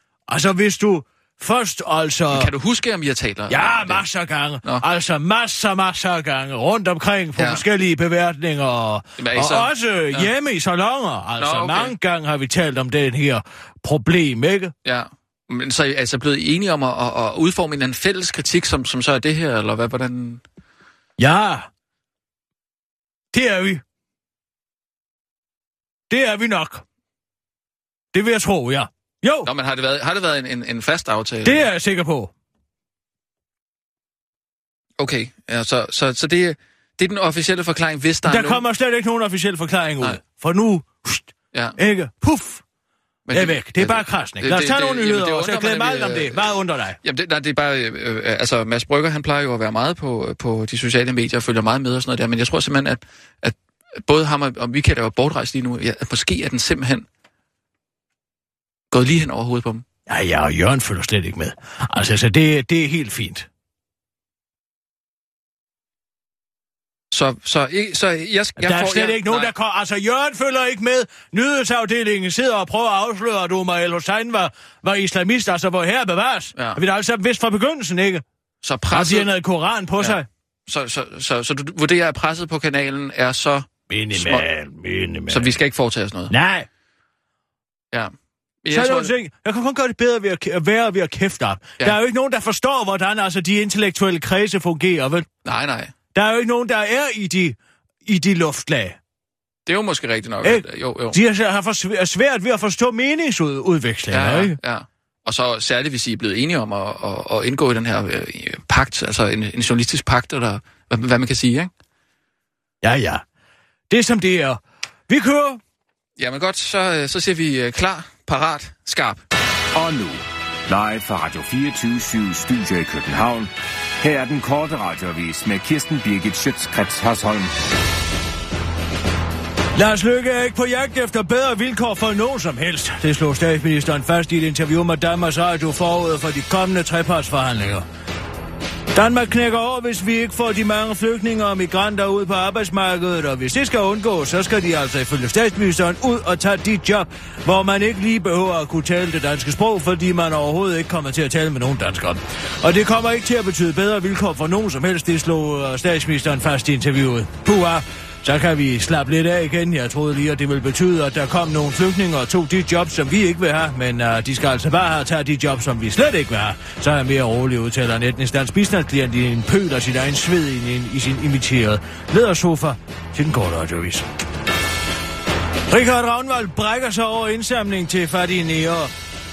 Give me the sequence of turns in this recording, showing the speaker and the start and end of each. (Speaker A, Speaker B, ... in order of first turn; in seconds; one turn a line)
Speaker A: 0.3-2.5
Speaker B: 2.3-4.0
Speaker A: 3.5-14.7
Speaker B: 9.2-10.3
Speaker B: 11.4-11.9
Speaker B: 14.8-20.4
Speaker A: 21.2-21.7
Speaker A: 23.3-23.8
Speaker A: 26.1-26.8
Speaker A: 28.1-29.5
Speaker B: 29.4-31.6
Speaker A: 31.4-32.3
Speaker B: 35.0-38.6
Speaker A: 38.2-42.6
Speaker B: 43.3-46.4
Speaker A: 43.3-47.0
Speaker B: 47.0-57.0
Speaker B: 58.9-59.8
Speaker A: 60.1-63.5
Speaker B: 67.1-69.5
Speaker A: 68.6-78.2
Speaker B: 78.6-79.3
Speaker A: 78.9-80.2
Speaker B: 80.0-84.5
Speaker A: 83.9-85.6
Speaker B: 85.3-86.3
Speaker A: 86.3-86.7
Speaker B: 88.6-89.1
Speaker A: 88.7-95.3
Speaker B: 95.4-95.9
Speaker A: 96.1-99.0
Speaker B: 99.7-101.2
Speaker A: 100.4-104.6
Speaker B: 104.1-111.7
Speaker A: 112.8-113.2
Speaker A: 113.9-115.6
Speaker B: 116.2-119.2
Speaker C: 119.7-127.5
Speaker A: 129.7-137.8
Speaker A: 138.9-174.1
Speaker A: 175.7-178.9